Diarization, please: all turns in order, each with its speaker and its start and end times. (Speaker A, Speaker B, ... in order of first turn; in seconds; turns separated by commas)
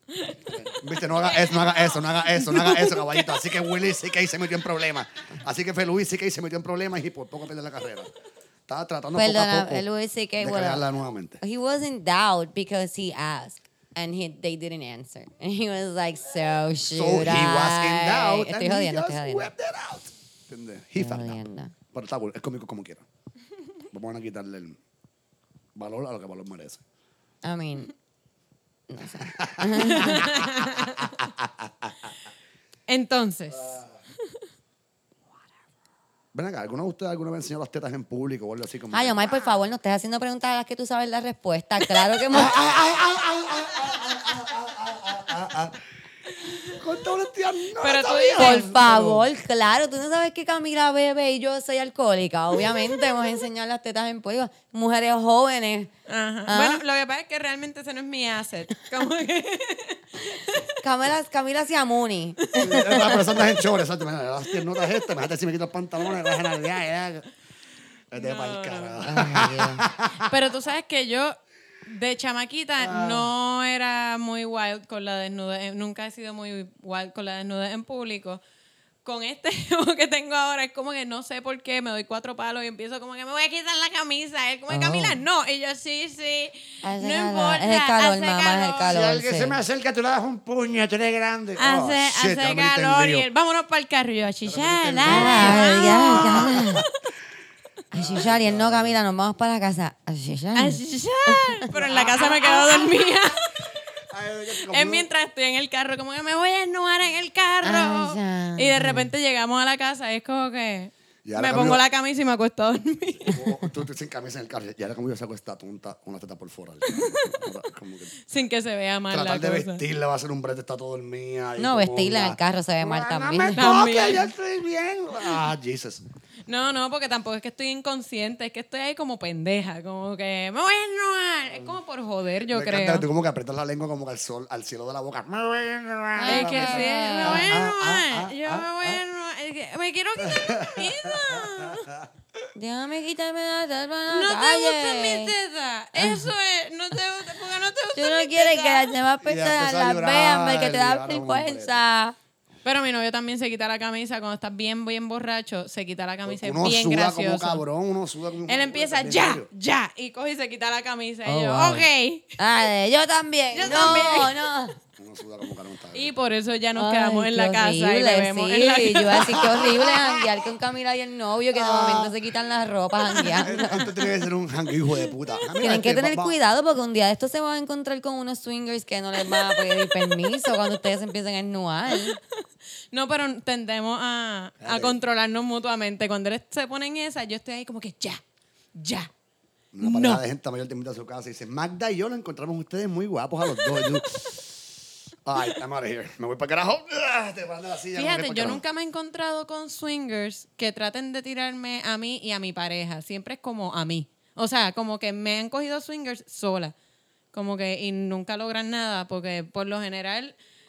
Speaker A: 0.1-3.4, Speaker B: 0.5-8.1, Speaker B: 8.7-9.8, Speaker C: 9.1-10.8, Speaker B: 10.4-11.4, Speaker C: 11.4-19.5, Speaker B: 16.9-21.4, Speaker C: 21.0-21.7, Speaker B: 21.9-23.1, Speaker B: 23.9-24.8, Speaker B: 25.7-26.8, Speaker C: 27.4-27.9, Speaker C: 28.9-30.5, Speaker B: 29.2-32.2, Speaker A: 29.9-31.1, Speaker A: 32.9-33.8, Speaker B: 33.6-33.9, Speaker B: 36.3-39.5, Speaker C: 38.9-42.6, Speaker B: 42.1-45.8, Speaker A: 46.5-46.8, Speaker B: 46.6-49.3, Speaker A: 47.8-48.7, Speaker C: 48.4-55.9, Speaker A: 56.1-60.7, Speaker C: 56.5-56.8, Speaker C: 60.8-63.4, Speaker B: 62.6-67.3, Speaker A: 62.7-63.2, Speaker A: 64.8-65.0, Speaker A: 66.2-66.6, Speaker B: 68.1-70.3, Speaker A: 68.2-69.0, Speaker C: 69.0-69.8, Speaker A: 70.2-78.4, Speaker B: 72.8-73.3, Speaker A: 79.0-88.9, Speaker C: 84.7-85.2, Speaker C: 86.8-89.6, Speaker B: 88.8-93.3, Speaker A: 91.6-96.6, Speaker B: 94.4-96.9, Speaker C: 95.0-96.8, Speaker C: 97.9-101.6, Speaker B: 97.9-99.0, Speaker A: 100.5-103.5, Speaker B: 101.7-103.1, Speaker B: 104.1-105.1, Speaker A: 104.5-113.4, Speaker C: 107.6-109.1, Speaker B: 111.2-111.8, Speaker B: 113.2-118.1, Speaker A: 116.9-117.5, Speaker A: 118.2-119.8, Speaker B: 119.1-126.0, Speaker C: 121.6-123.6, Speaker A: 123.5-124.3, Speaker A: 126.5-133.0, Speaker B: 132.5-139.0, Speaker C: 136.2-137.5, Speaker A: 136.3-141.9, Speaker B: 140.2-142.1, Speaker C: 142.5-145.3, Speaker A: 144.1-148.9, Speaker C: 145.9-146.3, Speaker C: 147.9-152.2, Speaker B: 149.2-151.8, Speaker A: 152.6-157.6, Speaker B: 156.2-159.5, Speaker A: 158.5-162.3, Speaker C: 161.2-161.9, Speaker C: 162.4-164.8, Speaker A: 163.5-164.3, Speaker B: 163.6-164.3, Speaker B: 165.0-166.1, Speaker A: 165.9-169.4, Speaker C: 166.8-173.9, Speaker B: 169.2-170.3, Speaker B: 171.5-172.1, Speaker A: 173.1-173.6, Speaker B: 173.4-176.4, Speaker A: 174.9-175.3, Speaker C: 175.6-182.2, Speaker A: 179.2-180.1, Speaker A: 181.9-188.2, Speaker B: 184.6-185.0, Speaker A: 188.7-189.1, Speaker B: 189.7-194.6, Speaker A: 189.8-190.2, Speaker A: 193.6-194.0, Speaker B: 195.2-198.6, Speaker A: 197.9-206.7, Speaker A: 207.3-210.3